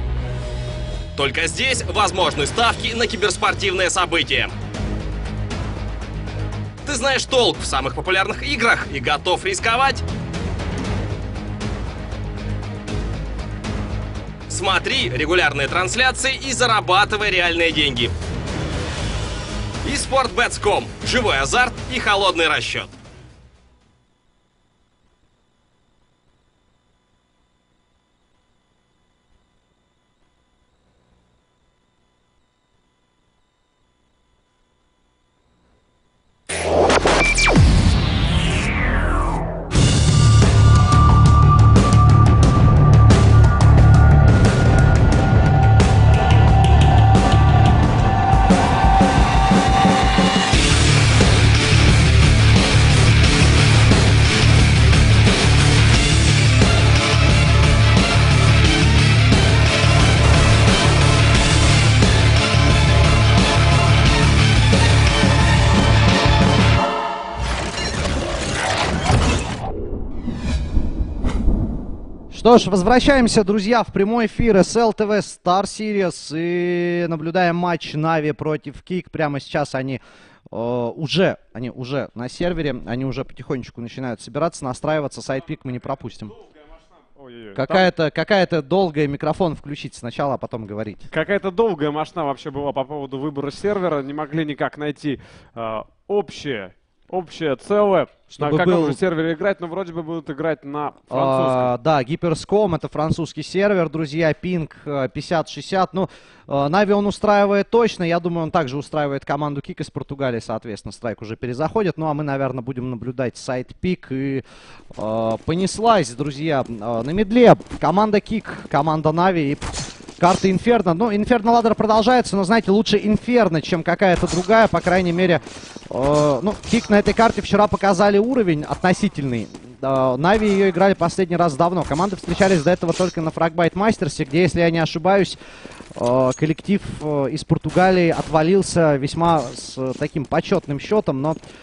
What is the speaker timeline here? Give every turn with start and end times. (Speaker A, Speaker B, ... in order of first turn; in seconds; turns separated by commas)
Speaker A: 1.1-4.5, Speaker A: 6.8-10.0, Speaker A: 14.5-18.1, Speaker A: 19.8-22.9, Speaker B: 72.3-86.4, Speaker C: 87.2-87.9, Speaker B: 87.5-91.1, Speaker C: 91.1-101.7, Speaker B: 98.3-99.0, Speaker B: 101.1-114.4, Speaker B: 114.9-135.4, Speaker B: 135.9-141.4